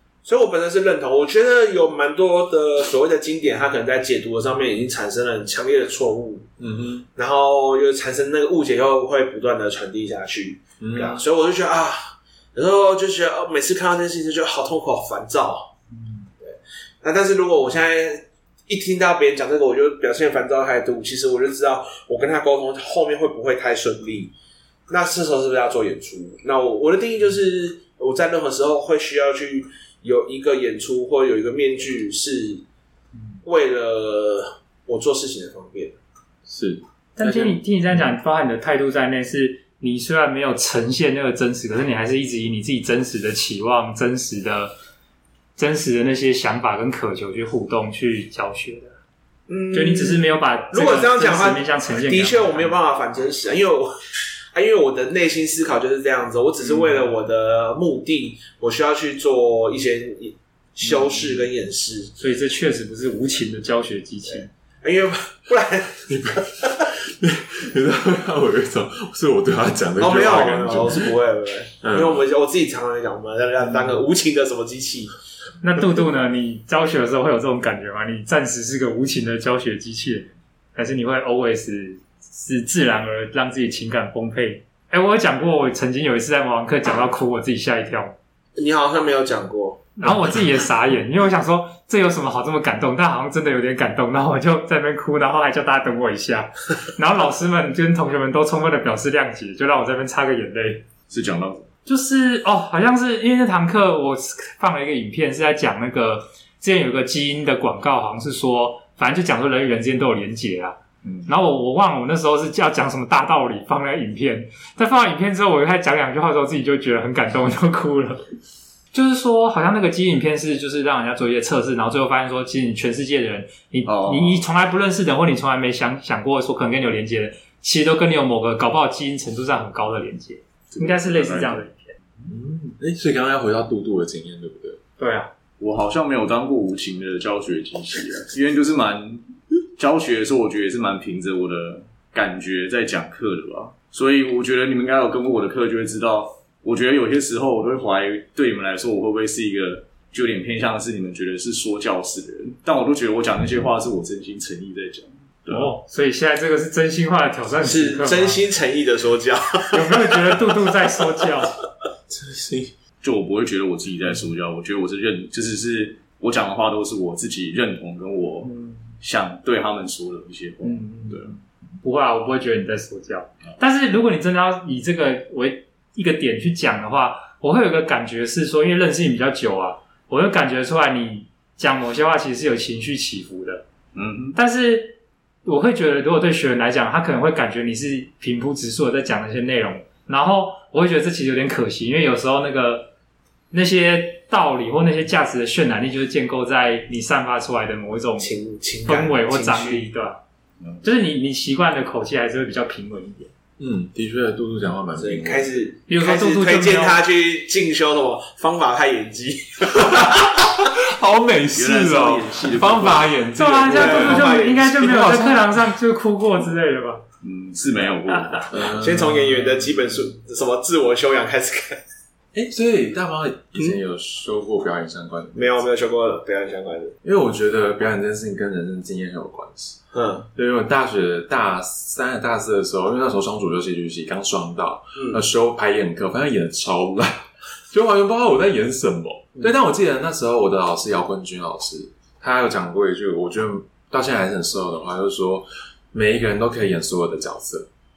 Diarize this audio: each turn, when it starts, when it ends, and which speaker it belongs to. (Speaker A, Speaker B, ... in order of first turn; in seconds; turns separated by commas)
Speaker A: 0.2-6.5, Speaker B: 6.6-7.1, Speaker A: 7.2-15.7, Speaker B: 10.8-11.2, Speaker A: 16.4-24.3, Speaker A: 24.9-32.6, Speaker A: 33.4-36.0, Speaker B: 36.5-38.0, Speaker C: 37.2-44.7, Speaker C: 45.6-49.0, Speaker A: 49.5-53.9, Speaker C: 49.7-52.7, Speaker A: 54.5-62.1, Speaker C: 56.6-57.1, Speaker C: 62.2-64.5, Speaker A: 64.3-66.8, Speaker B: 66.1-71.2, Speaker A: 70.0-75.1, Speaker B: 71.8-72.2, Speaker C: 75.6-88.2, Speaker A: 88.6-90.0, Speaker C: 90.0-100.9, Speaker D: 101.1-101.7, Speaker C: 101.9-118.2, Speaker D: 111.0-111.3, Speaker C: 118.9-132.0, Speaker D: 123.9-124.4, Speaker D: 130.7-131.6, Speaker B: 132.2-134.8, Speaker C: 135.0-135.3, Speaker D: 135.6-155.7, Speaker C: 155.5-158.4, Speaker A: 157.6-160.5, Speaker C: 159.7-161.6, Speaker B: 162.1-162.7, Speaker D: 163.0-171.3, Speaker C: 168.4-168.8, Speaker C: 170.6-183.6, Speaker D: 183.9-184.4, Speaker C: 184.3-192.9, Speaker C: 193.5-198.3, Speaker A: 198.2-199.9, Speaker C: 198.9-200.2, Speaker C: 200.8-203.3, Speaker B: 203.6-205.5, Speaker A: 204.9-210.5, Speaker C: 205.9-207.0, Speaker B: 209.7-215.7, Speaker D: 211.5-213.1, Speaker C: 213.4-217.0, Speaker A: 213.7-214.9, Speaker D: 217.2-218.5, Speaker C: 218.1-218.4, Speaker B: 218.5-219.6, Speaker A: 218.6-221.8, Speaker B: 222.3-225.7, Speaker A: 225.3-227.0, Speaker B: 227.0-229.8, Speaker A: 229.9-230.3, Speaker B: 230.3-247.7, Speaker A: 235.0-235.2